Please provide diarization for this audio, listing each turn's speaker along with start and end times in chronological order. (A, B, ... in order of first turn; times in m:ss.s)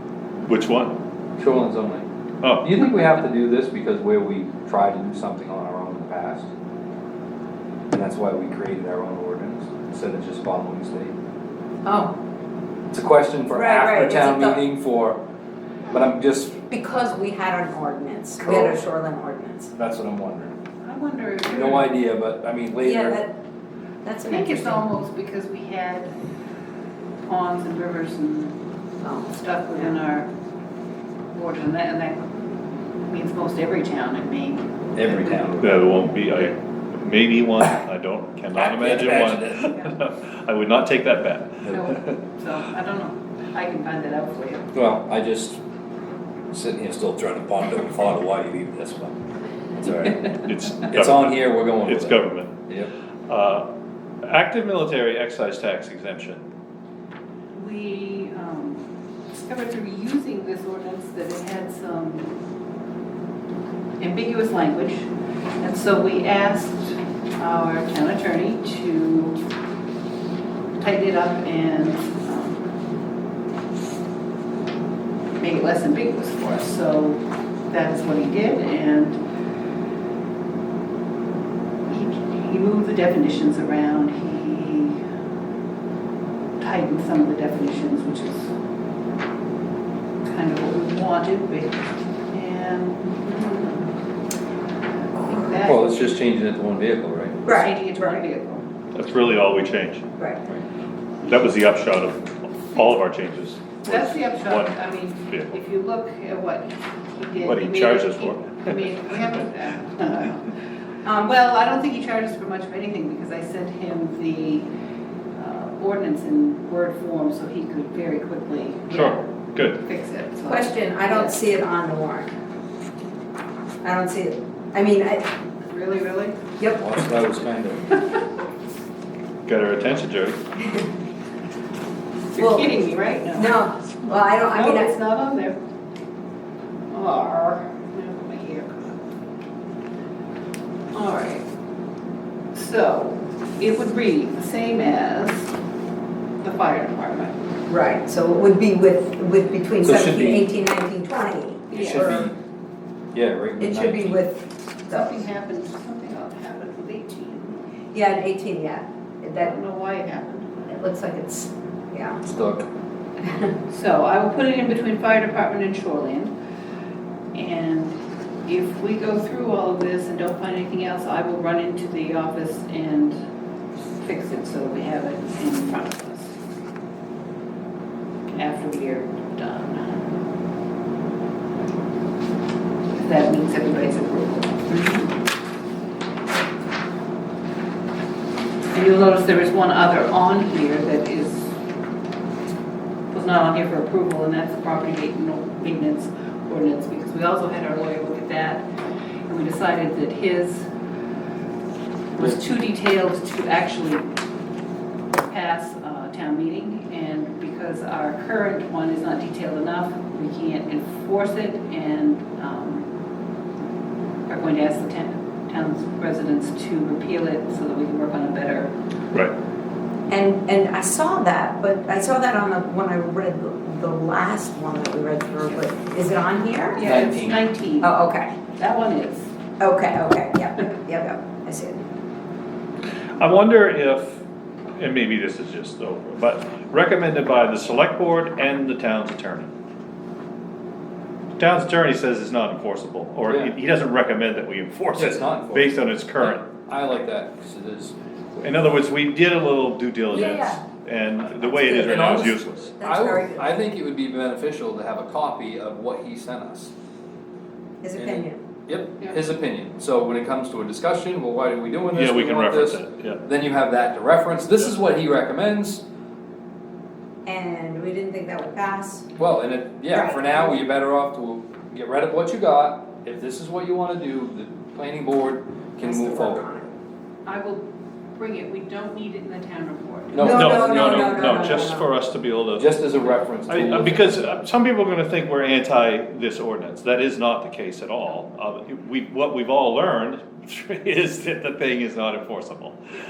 0:00.4-0:00.9 A
0:01.4-0:02.0 B
0:02.4-0:02.8 A
0:02.6-0:06.5 B
0:07.9-0:11.1 B
0:11.8-0:12.1 C
0:12.9-0:15.2 B
0:13.5-0:14.6 C
0:15.9-0:16.6 B
0:16.6-0:19.7 C
0:18.4-0:18.8 B
0:19.7-0:20.5 B
0:20.8-0:21.9 D
0:21.4-0:23.2 B
0:22.8-0:23.3 C
0:24.0-0:24.8 C
0:24.2-0:26.1 D
0:27.2-0:28.5 D
0:29.0-0:30.0 C
0:29.3-0:30.3 D
0:31.3-0:32.3 D
0:33.0-0:35.4 D
0:34.9-0:35.8 B
0:35.6-0:42.2 A
0:38.6-0:39.7 B
0:41.7-0:44.7 D
0:44.7-0:45.6 B
0:46.5-0:49.1 B
0:49.8-0:52.9 B
0:50.4-0:52.6 A
0:53.3-0:53.7 A
0:54.2-0:56.4 A
0:57.5-1:02.3 D
1:04.0-1:05.1 D
1:05.6-1:09.4 D
1:10.8-1:12.7 D
1:15.4-1:19.2 D
1:21.9-1:25.0 D
1:26.6-1:28.5 D
1:30.2-1:33.9 D
1:35.1-1:36.1 D
1:35.6-1:37.4 B
1:37.4-1:38.2 C
1:37.5-1:38.6 D
1:38.9-1:40.0 A
1:41.2-1:45.5 A
1:43.8-1:50.5 D
1:47.4-1:48.9 A
1:51.0-1:54.7 D
1:55.3-1:59.2 D
1:58.9-1:59.8 A
1:59.8-2:01.4 D
2:00.4-2:02.3 C
2:03.8-2:05.3 C
2:05.6-2:06.4 D
2:06.6-2:07.1 C
2:06.8-2:08.0 B
2:09.4-2:10.4 A
2:12.3-2:15.6 D
2:12.4-2:12.8 C
2:13.3-2:14.9 C
2:16.9-2:19.0 D
2:20.9-2:21.4 D
2:22.5-2:25.5 D
2:26.4-2:27.4 D
2:27.7-2:32.3 C
2:29.8-2:30.5 B
2:31.7-2:32.3 B
2:31.7-2:32.3 D
2:33.1-2:34.2 B
2:33.6-2:35.2 C
2:34.9-2:37.6 D
2:37.9-2:39.5 C
2:39.4-2:40.5 D
2:40.6-2:42.2 C
2:42.2-2:42.7 B
2:43.2-2:43.5 C
2:43.7-2:46.3 D
2:47.3-2:53.2 D
2:54.0-2:56.3 D
2:58.3-3:00.0 D
3:02.9-3:04.7 D
3:04.7-3:05.1 C
3:08.7-3:11.5 D
3:13.1-3:18.6 D
3:19.2-3:20.7 D
3:22.1-3:24.1 D
3:25.2-3:32.9 D
3:34.3-3:38.7 D
3:40.1-3:47.0 C
3:46.7-3:48.0 D
3:46.8-3:47.4 B
3:47.8-3:48.3 C
3:48.6-3:49.3 D
3:49.6-3:51.8 C
3:53.2-3:54.2 A
3:54.8-3:59.5 A
4:01.4-4:06.4 A
4:03.3-4:03.5 B
4:04.9-4:07.9 B
4:08.4-4:12.7 A
4:10.1-4:10.6 C
4:11.5-4:12.0 C
4:11.7-4:16.7 B
4:12.8-4:13.5 C
4:17.8-4:18.4 C
4:18.0-4:25.8 B
4:21.9-4:23.2 A
4:27.2-4:29.1 C
4:29.2-4:36.4 B
4:29.9-4:30.6 C
4:35.8-4:36.7 C
4:37.2-4:37.6 D
4:38.1-4:40.4 D
4:40.1-4:41.5 B
4:40.2-4:41.9 C
4:40.2-4:42.8 A
4:42.6-4:44.2 B
4:43.4-4:52.8 A